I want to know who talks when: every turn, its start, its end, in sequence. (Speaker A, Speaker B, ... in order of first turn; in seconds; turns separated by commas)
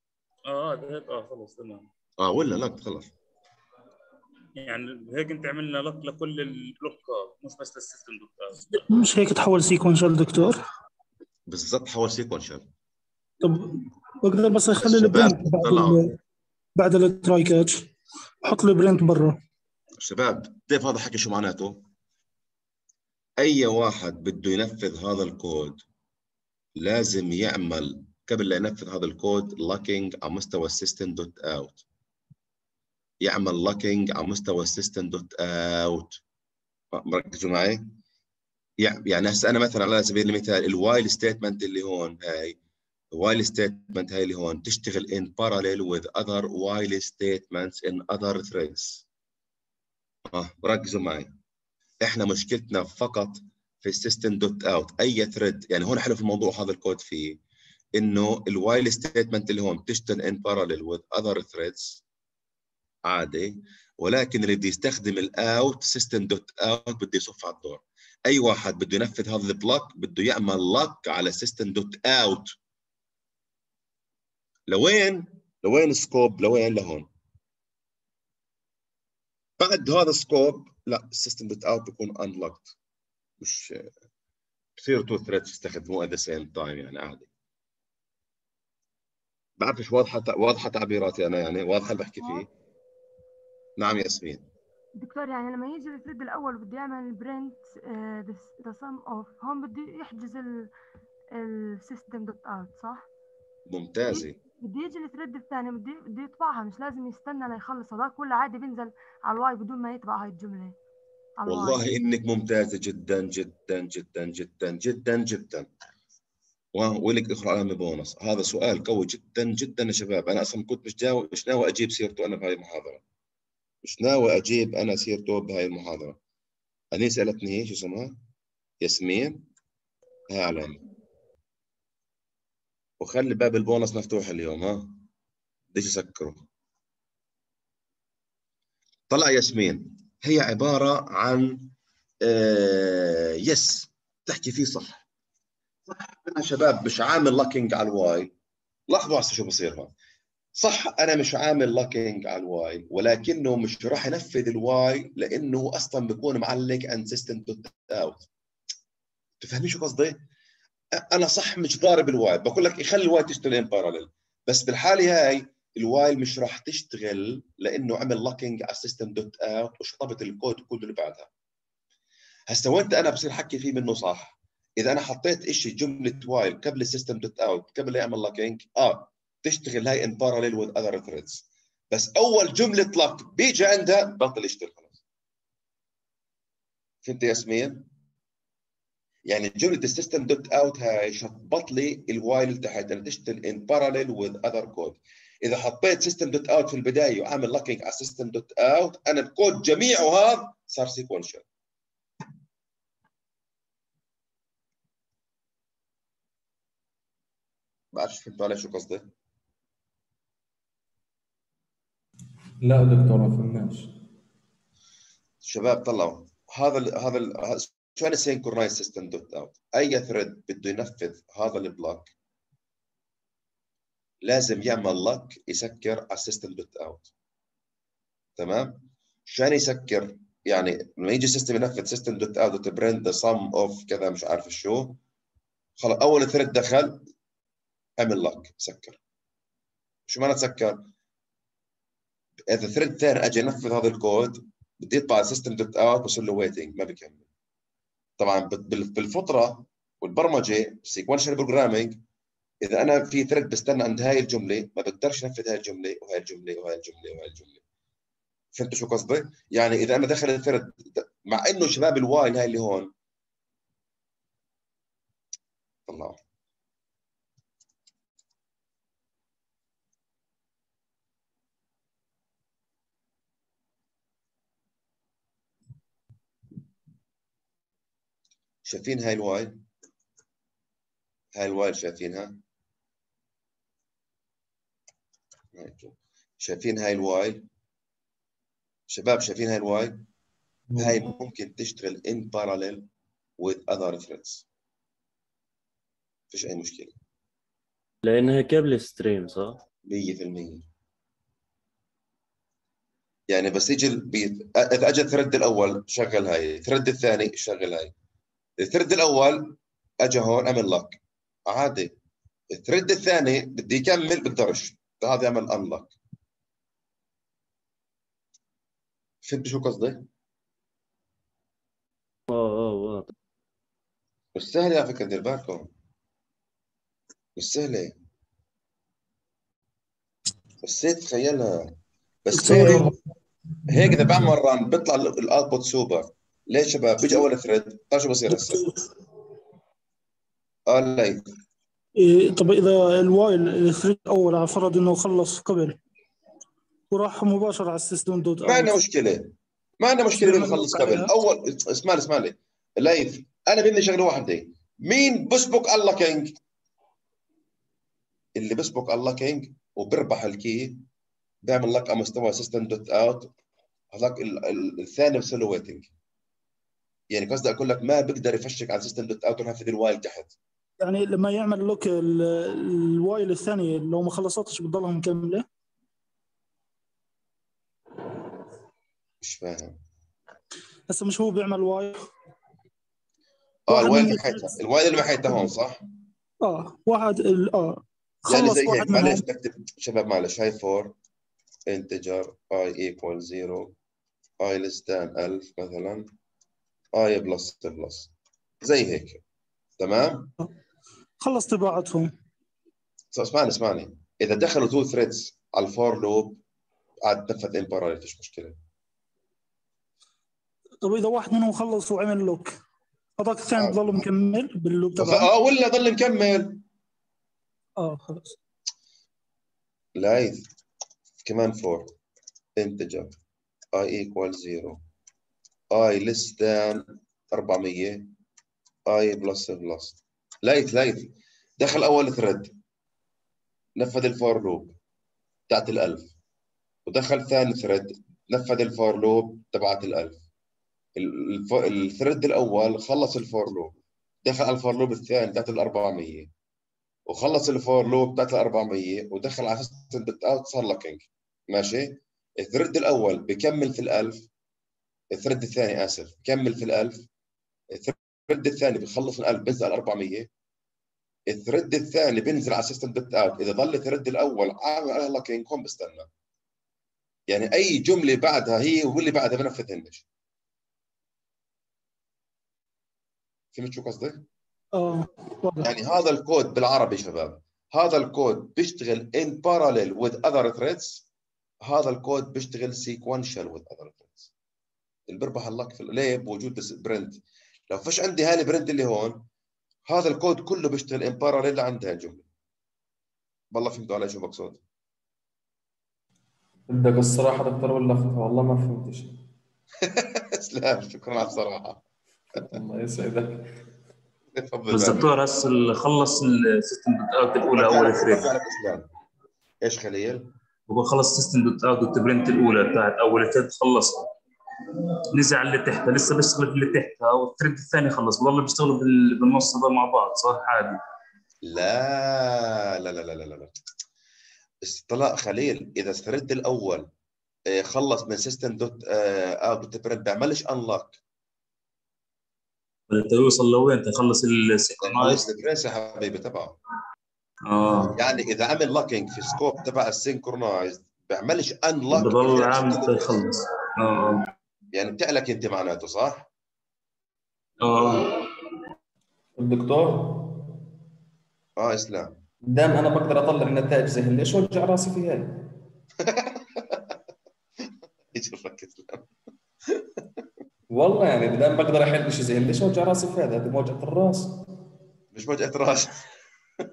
Speaker A: 0.5-1.9, Speaker B: 2.2-3.1, Speaker A: 4.6-8.7, Speaker C: 8.7-10.6, Speaker B: 11.5-12.7, Speaker C: 13.4-16.2, Speaker B: 14.8-16.1, Speaker C: 16.8-17.9, Speaker C: 18.4-19.4, Speaker B: 20.0-21.8, Speaker B: 23.4-25.8, Speaker B: 26.8-31.8, Speaker B: 33.2-36.2, Speaker B: 36.9-37.8, Speaker B: 38.8-42.6, Speaker B: 43.1-49.1, Speaker B: 50.3-51.4, Speaker B: 52.0-57.4, Speaker B: 58.0-62.0, Speaker B: 63.1-72.5, Speaker B: 74.7-77.1, Speaker B: 79.6-82.8, Speaker B: 83.4-83.9, Speaker B: 84.8-87.3, Speaker B: 89.6-92.5, Speaker B: 93.8-94.5, Speaker D: 95.0-100.7, Speaker D: 101.3-103.1, Speaker B: 103.7-104.3, Speaker D: 104.1-110.8, Speaker D: 111.4-111.9, Speaker B: 111.5-115.7, Speaker B: 116.8-123.0, Speaker B: 123.8-126.2, Speaker B: 126.9-128.2, Speaker B: 128.8-129.4, Speaker B: 130.3-130.8, Speaker B: 133.0-135.0, Speaker B: 135.7-136.4, Speaker B: 139.1-141.7, Speaker B: 142.2-145.0, Speaker B: 145.9-148.3, Speaker B: 148.9-149.9, Speaker B: 150.6-158.3, Speaker B: 159.4-160.2, Speaker B: 161.1-171.3, Speaker B: 172.5-185.0, Speaker B: 187.0-187.8, Speaker B: 189.3-201.5, Speaker B: 207.9-209.1, Speaker E: 212.6-213.9, Speaker B: 215.4-222.1, Speaker B: 224.2-227.1, Speaker B: 228.4-235.0, Speaker B: 235.8-237.1, Speaker B: 238.0-239.0, Speaker B: 240.1-240.9, Speaker B: 242.5-247.2, Speaker B: 248.2-252.0, Speaker B: 252.6-257.6, Speaker B: 258.5-262.9, Speaker B: 265.9-266.2, Speaker B: 278.6-279.6, Speaker B: 281.3-282.4, Speaker B: 285.6-287.4, Speaker B: 288.9-290.0, Speaker B: 290.8-292.9, Speaker B: 293.4-294.4, Speaker B: 296.3-296.9, Speaker F: 298.0-299.6, Speaker B: 299.9-300.7, Speaker B: 303.3-307.9, Speaker B: 308.6-311.9, Speaker B: 312.5-315.9, Speaker B: 319.2-320.1, Speaker F: 322.3-323.1, Speaker B: 324.4-325.7, Speaker B: 327.4-327.9, Speaker B: 330.6-331.7, Speaker B: 332.2-332.9, Speaker C: 332.3-332.9, Speaker B: 333.7-338.7, Speaker C: 338.5-338.8, Speaker B: 340.7-341.2, Speaker C: 342.0-345.8, Speaker C: 346.9-348.8, Speaker B: 348.4-356.3, Speaker C: 350.1-351.1, Speaker B: 358.4-360.8, Speaker B: 361.4-363.3, Speaker B: 363.9-365.9, Speaker B: 367.1-370.3, Speaker C: 370.8-375.5, Speaker B: 379.2-379.8, Speaker C: 380.9-382.1, Speaker B: 383.7-385.8, Speaker C: 383.7-384.5, Speaker C: 386.4-389.2, Speaker B: 388.3-390.9, Speaker B: 391.7-393.7, Speaker B: 394.4-396.1, Speaker B: 396.9-398.1, Speaker B: 398.6-399.2, Speaker B: 399.8-400.3, Speaker C: 401.2-402.1, Speaker B: 403.1-406.4, Speaker B: 407.0-408.6, Speaker C: 410.8-412.5, Speaker C: 413.2-415.3, Speaker B: 413.6-414.1, Speaker B: 415.0-416.6, Speaker C: 417.8-418.4, Speaker B: 420.0-420.5, Speaker B: 421.2-421.9, Speaker B: 422.6-423.1, Speaker B: 423.7-424.8, Speaker B: 425.7-428.1, Speaker B: 428.9-432.5, Speaker B: 433.8-434.7, Speaker B: 435.5-436.1, Speaker B: 436.9-440.2, Speaker B: 441.0-446.3, Speaker B: 447.1-454.3, Speaker B: 455.1-457.1, Speaker B: 457.7-460.3, Speaker B: 461.3-466.1, Speaker B: 467.3-470.0, Speaker B: 473.5-474.2, Speaker C: 474.8-475.7, Speaker B: 475.6-481.1, Speaker B: 481.6-484.3, Speaker B: 485.1-489.2, Speaker B: 489.9-492.2, Speaker B: 493.5-494.6, Speaker E: 496.7-499.1, Speaker B: 499.8-501.8, Speaker E: 502.5-503.5, Speaker B: 504.4-505.1, Speaker A: 504.7-508.3, Speaker B: 507.5-508.9, Speaker B: 509.6-510.3, Speaker A: 510.7-514.1, Speaker A: 515.1-520.8, Speaker B: 521.5-523.5, Speaker B: 524.6-526.9, Speaker B: 527.5-531.0, Speaker A: 532.9-535.2, Speaker B: 534.8-536.6, Speaker A: 537.5-538.0, Speaker B: 538.0-543.2, Speaker A: 541.9-544.3, Speaker B: 544.7-546.3, Speaker A: 547.6-548.3, Speaker B: 547.7-548.1, Speaker E: 549.4-550.4, Speaker B: 551.6-552.2, Speaker E: 552.5-555.5, Speaker B: 556.0-556.8, Speaker B: 558.1-559.1, Speaker E: 560.7-564.4, Speaker B: 565.1-566.0